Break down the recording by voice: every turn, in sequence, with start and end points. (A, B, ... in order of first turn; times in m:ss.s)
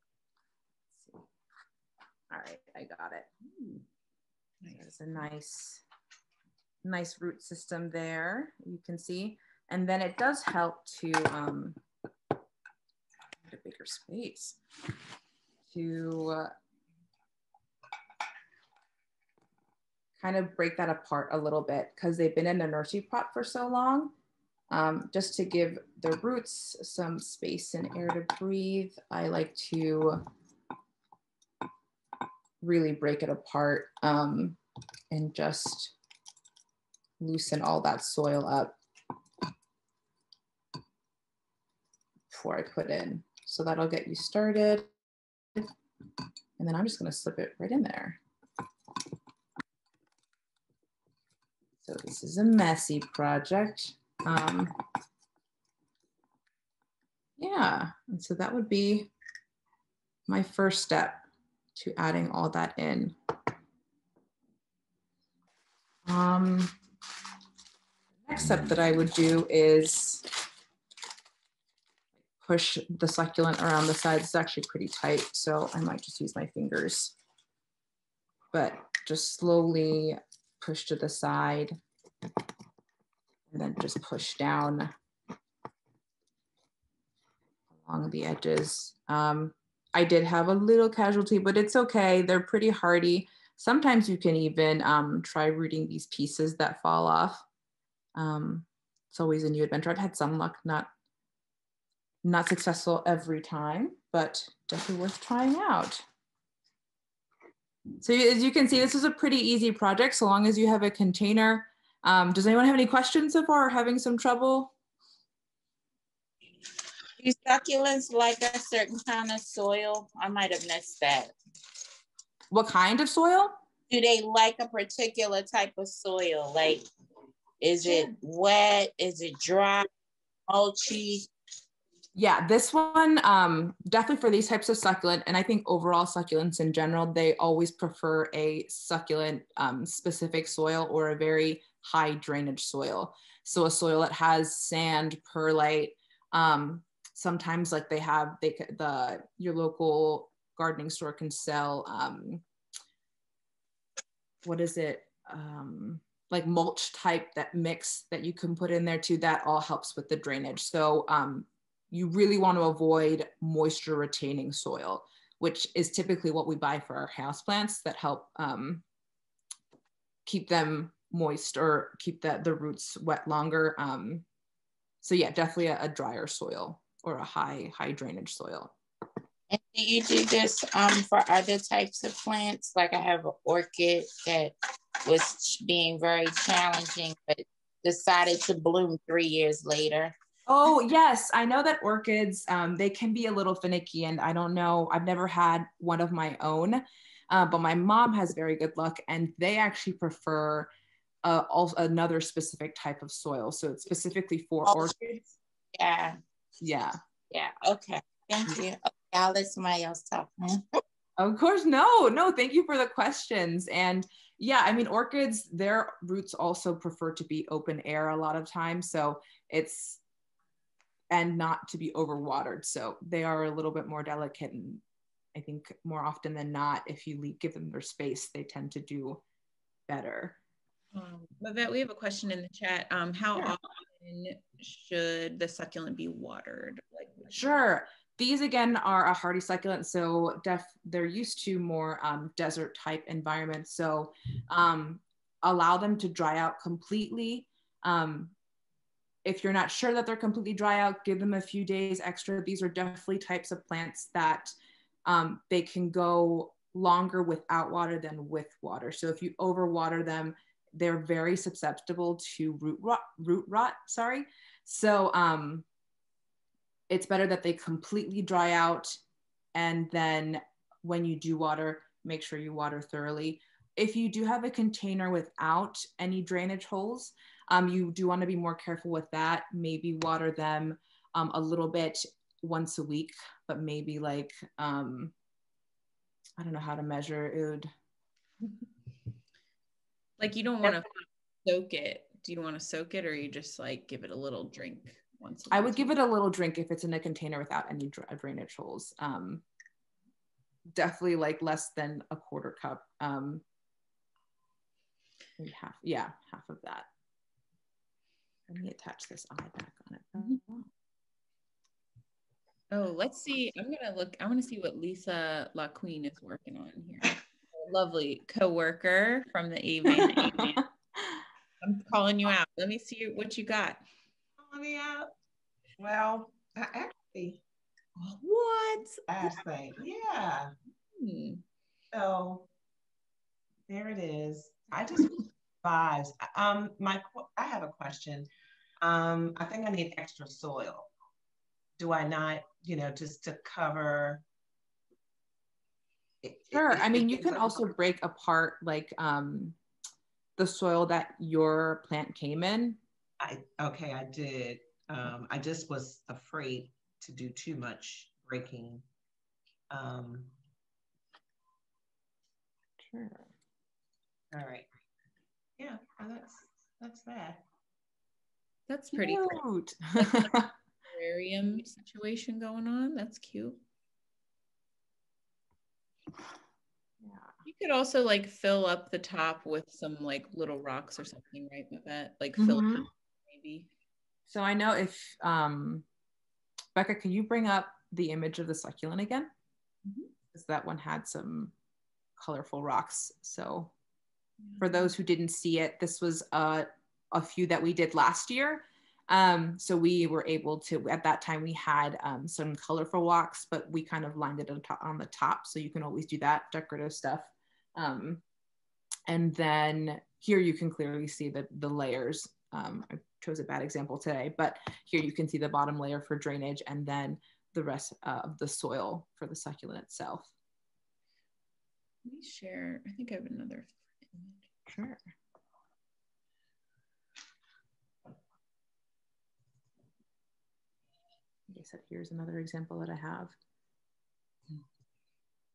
0:02.3-0:03.3 A
0:03.4-0:03.8 B
0:04.7-0:05.8 A
0:06.8-0:11.8 A
0:13.4-0:14.6 A
0:15.7-0:16.5 A
0:20.2-0:24.1 A
0:24.7-0:30.2 A
0:32.6-0:34.6 A
0:35.1-0:35.9 A
0:37.2-0:38.8 A
0:42.3-0:44.9 A
0:46.6-0:48.2 A
0:51.8-0:54.7 A
0:57.4-0:59.1 A
1:00.3-1:01.2 A
1:01.7-1:03.1 A
1:06.0-1:06.7 A
1:08.2-1:10.2 A
1:12.4-1:17.1 A
1:18.5-1:21.8 A
1:23.5-1:24.9 A
1:27.7-1:37.4 A
1:38.1-1:40.9 A
1:42.2-1:46.0 A
1:48.0-1:54.7 A
1:57.2-2:01.3 C
2:02.5-2:03.6 A
2:03.9-2:06.8 C
2:07.6-2:09.9 C
2:07.8-2:08.1 A
2:10.5-2:11.3 C
2:12.1-2:32.4 A
2:34.4-2:48.8 A
2:50.2-2:54.2 A
2:55.0-2:58.7 A
2:59.5-3:10.1 C
3:10.5-3:20.7 A
3:21.2-3:25.2 A
3:24.6-3:25.2 C
3:25.7-3:26.2 C
3:26.6-3:27.0 A
3:27.3-3:30.8 C
3:31.2-3:40.0 A
3:41.1-3:44.8 A
3:45.3-3:49.2 A
3:49.9-3:50.4 A
3:50.9-3:57.5 B
3:57.3-4:08.3 A
4:09.2-4:14.5 A
4:15.0-4:25.6 A
4:26.9-4:29.0 A
4:29.5-4:45.1 A
4:46.4-4:47.7 A
4:50.2-4:50.9 B
4:51.4-4:55.9 B
4:55.5-4:59.4 A
5:00.7-5:03.4 A
5:05.4-5:06.9 A
5:08.5-5:10.7 A
5:12.7-5:20.6 B
5:19.9-5:21.2 A
5:21.6-5:23.8 B
5:24.4-5:25.1 D
5:25.8-5:27.4 D
5:28.0-5:29.4 B
5:29.1-5:30.5 D
5:30.9-5:31.4 B
5:31.9-5:32.5 D
5:33.7-5:38.3 D
5:38.8-5:40.9 D
5:41.8-5:44.2 D
5:46.2-5:47.7 D
5:46.5-5:49.6 A
5:50.4-5:52.8 A
5:53.2-5:58.8 D
5:59.7-6:00.3 D
6:02.8-6:03.3 A
6:04.3-6:04.7 D
6:05.6-6:07.4 D
6:08.7-6:09.4 B
6:08.9-6:10.5 A
6:10.0-6:10.3 B
6:10.9-6:13.6 B
6:17.0-6:17.3 A
6:17.4-6:23.7 B
6:22.4-6:22.8 A
6:24.3-6:25.8 A
6:26.7-6:29.3 A
6:30.3-6:31.5 A
6:32.2-6:33.7 A
6:34.4-6:34.9 B
6:34.6-6:48.2 A
6:49.1-7:00.3 A
7:02.0-7:04.4 B
7:04.7-7:05.0 A
7:11.5-7:13.3 A